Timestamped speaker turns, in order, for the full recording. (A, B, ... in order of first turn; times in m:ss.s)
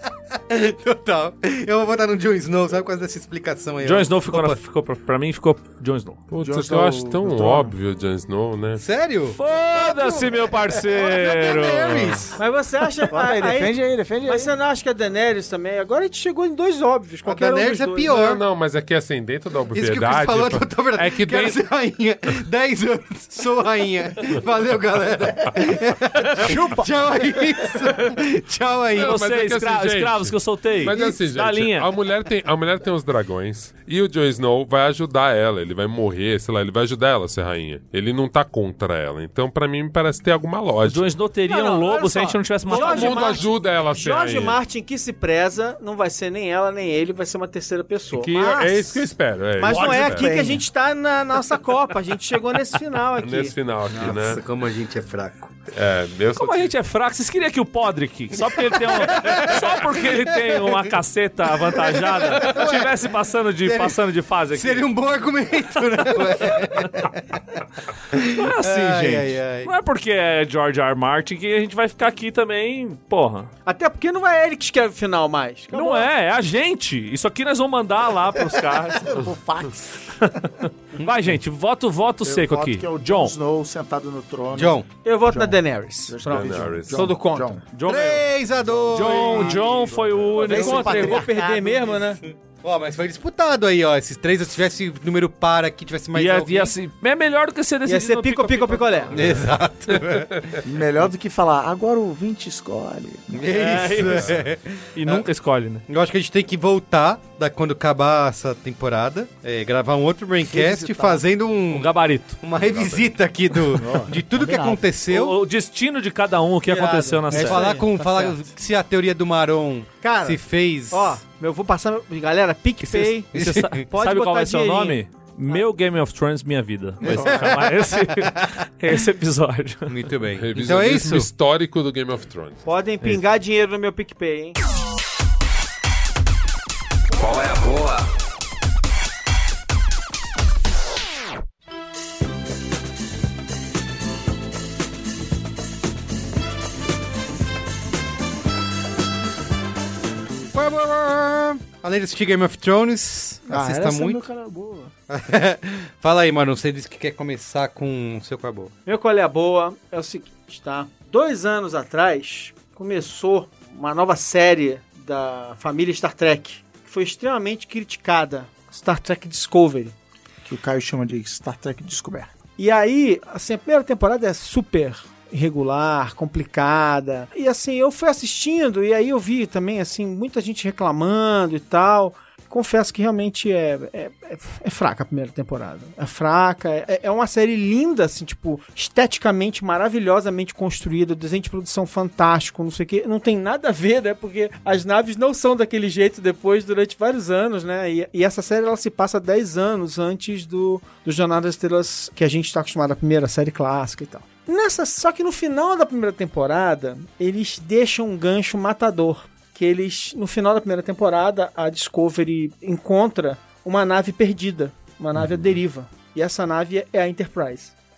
0:00.3-0:04.6 A
0:03.8-0:06.2 B
0:06.3-0:08.8 C
0:06.4-0:07.7 D
0:08.8-0:12.4 A
0:09.4-0:12.3 B
0:12.4-0:18.1 E
0:13.1-0:14.5 D
0:17.2-0:18.4 A
0:18.0-0:21.6 C
0:19.7-0:29.2 A
0:29.0-0:41.1 C
0:29.0-0:31.9 B
0:30.8-0:31.1 A
0:40.8-0:43.4 B
0:41.5-0:53.5 E
0:42.7-0:44.6 C
0:48.1-0:50.3 C
0:49.6-0:50.6 D
0:53.2-0:54.4 C
0:53.9-0:55.5 A
0:55.7-0:56.7 C
0:56.4-1:04.8 B
0:58.5-1:00.9 A
1:01.5-1:07.6 A
1:05.8-1:07.0 B
1:08.1-1:09.7 A
1:08.3-1:13.5 B
1:13.6-1:16.1 E
1:15.7-1:19.3 B
1:19.0-1:20.3 D
1:20.2-1:23.3 B
1:22.2-1:27.6 D
1:24.5-1:24.9 A
1:25.0-1:27.6 E
1:26.3-1:27.1 C
1:27.7-1:28.3 B
1:27.8-1:29.9 A
1:28.9-1:31.3 B
1:28.9-1:32.0 D
1:30.3-1:32.2 E
1:30.5-1:30.8 A
1:32.4-1:36.7 A
1:36.1-1:39.4 B
1:37.8-1:39.1 E
1:39.1-1:40.6 A
1:39.1-1:40.5 C
1:40.6-1:44.0 D
1:43.3-1:45.3 A
1:43.5-1:44.4 B
1:44.1-1:44.4 C
1:44.9-1:45.8 B
1:45.9-1:55.4 A
1:50.5-1:51.2 D
1:51.7-1:52.4 B
1:52.5-1:53.2 C
1:53.7-1:54.8 D
1:55.1-1:57.8 B
1:56.6-1:58.3 E
1:57.3-2:01.2 A
2:00.0-2:05.6 E
2:02.8-2:10.0 B
2:03.3-2:03.8 A
2:07.0-2:08.4 A
2:09.9-2:11.3 A
2:10.4-2:12.6 C
2:12.6-2:14.6 E
2:17.4-2:17.8 C
2:30.5-2:34.3 A
2:33.5-2:34.9 D
2:35.1-2:38.7 A
2:38.8-2:49.9 E
2:50.4-2:52.3 D
2:52.6-3:37.7 E